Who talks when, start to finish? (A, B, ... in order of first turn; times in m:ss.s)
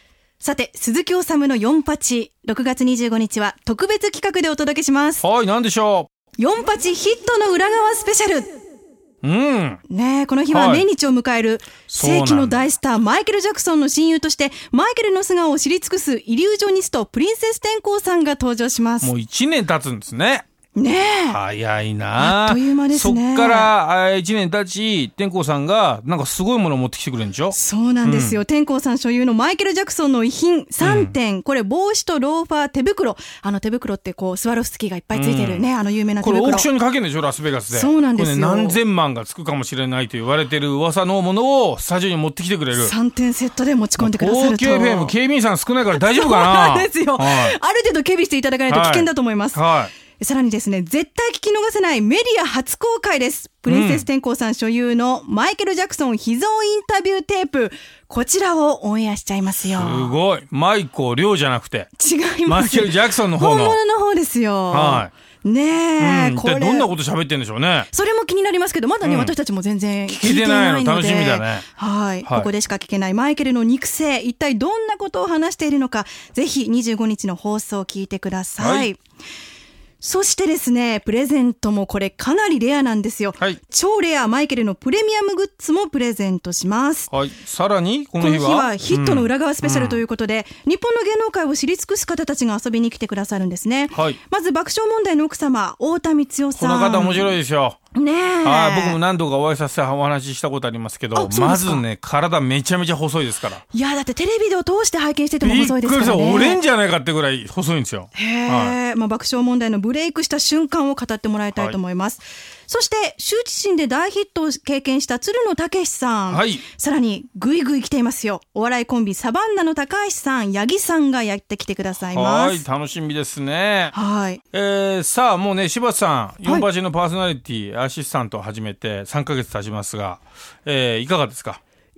0:00.4-0:05.2 A
0:05.2-0:06.1 B
0:06.4-0:08.5 A
0:09.2-0:09.8 B
0:09.9-0:19.1 A
0:10.5-0:10.8 B
0:11.9-0:12.6 B
0:19.0-0:20.4 B
0:20.7-0:21.4 A
0:21.3-0:28.4 B
0:22.2-0:23.7 A
0:27.5-0:36.7 A
0:30.8-0:31.1 B
0:35.1-0:35.7 B
0:36.2-0:42.9 B
0:37.7-0:38.8 A
0:42.8-0:45.1 A
0:44.0-0:47.5 B
0:45.9-0:49.6 A
0:48.7-0:49.9 B
0:50.2-1:00.2 A
0:53.6-0:54.0 B
0:59.7-1:01.9 B
1:02.0-1:06.9 A
1:02.4-1:03.8 B
1:04.7-1:05.1 B
1:06.0-1:07.9 B
1:07.9-1:19.0 A
1:09.0-1:09.3 B
1:10.1-1:11.6 B
1:18.6-1:18.9 B
1:20.0-1:27.1 A
1:27.1-1:30.0 B
1:28.2-1:37.4 A
1:36.6-1:37.8 B
1:37.9-1:39.0 A
1:38.4-1:43.6 B
1:41.1-1:41.8 A
1:43.7-1:46.6 A
1:45.4-1:48.8 B
1:48.1-2:02.6 A
1:56.3-1:56.6 B
2:02.1-2:03.9 B
2:03.9-2:04.4 A
2:04.5-2:11.6 B